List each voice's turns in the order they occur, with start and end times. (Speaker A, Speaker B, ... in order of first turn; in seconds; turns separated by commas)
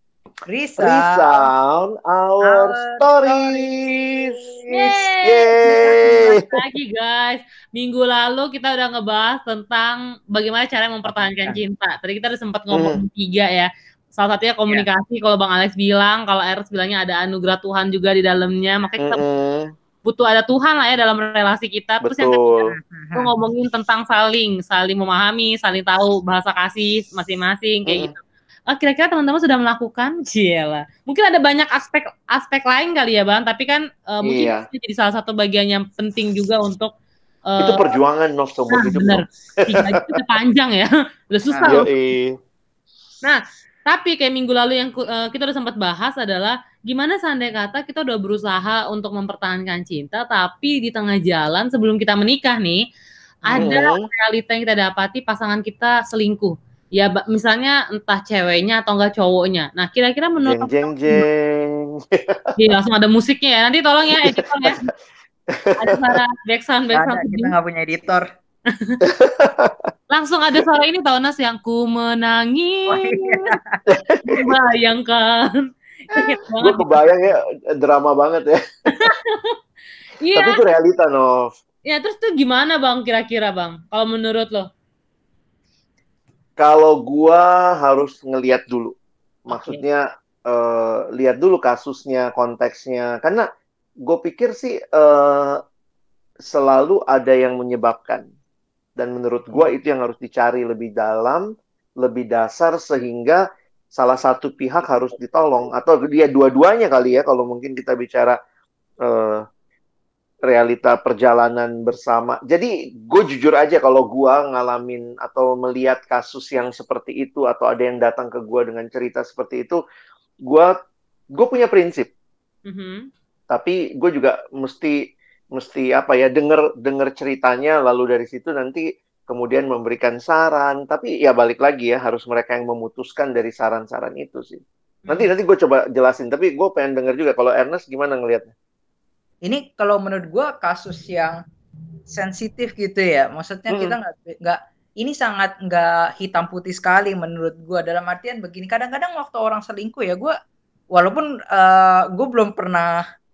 Speaker A: 0.5-1.5, Speaker B: 0.8-4.3, Speaker A: 2.4-5.0, Speaker C: 4.7-19.2, Speaker B: 5.2-6.4, Speaker A: 5.6-6.2, Speaker B: 12.7-13.0, Speaker B: 19.0-19.7, Speaker C: 20.1-28.2, Speaker B: 22.0-22.7, Speaker A: 22.7-23.3, Speaker B: 27.9-28.1, Speaker C: 28.7-36.9, Speaker B: 34.2-34.6, Speaker C: 37.5-38.0, Speaker B: 37.6-40.1, Speaker C: 38.7-41.9, Speaker A: 41.5-41.8, Speaker B: 41.6-42.4, Speaker C: 43.2-52.8, Speaker C: 53.5-61.2, Speaker A: 53.5-53.7, Speaker B: 53.6-54.0, Speaker B: 60.4-62.5, Speaker C: 62.6-64.9, Speaker B: 65.5-66.0, Speaker C: 65.8-67.5, Speaker A: 66.9-68.2, Speaker B: 69.0-69.8, Speaker C: 70.1-73.5, Speaker A: 72.9-73.8, Speaker B: 73.9-74.4, Speaker C: 74.2-77.3, Speaker B: 76.6-78.6, Speaker C: 78.9-79.6, Speaker C: 80.2-80.6, Speaker B: 80.4-81.5, Speaker C: 81.9-84.7, Speaker B: 86.6-89.0, Speaker B: 89.5-93.5, Speaker C: 89.5-89.8, Speaker B: 94.1-95.6, Speaker B: 96.5-98.2, Speaker B: 99.0-101.5, Speaker B: 102.0-103.4, Speaker B: 103.9-108.4, Speaker B: 109.0-109.4, Speaker B: 110.5-119.8, Speaker B: 121.4-122.1, Speaker C: 122.7-123.1, Speaker B: 123.5-125.0, Speaker B: 125.6-138.5, Speaker C: 135.0-135.3, Speaker A: 139.4-141.4, Speaker A: 142.1-150.3, Speaker B: 143.7-144.0, Speaker A: 150.9-153.0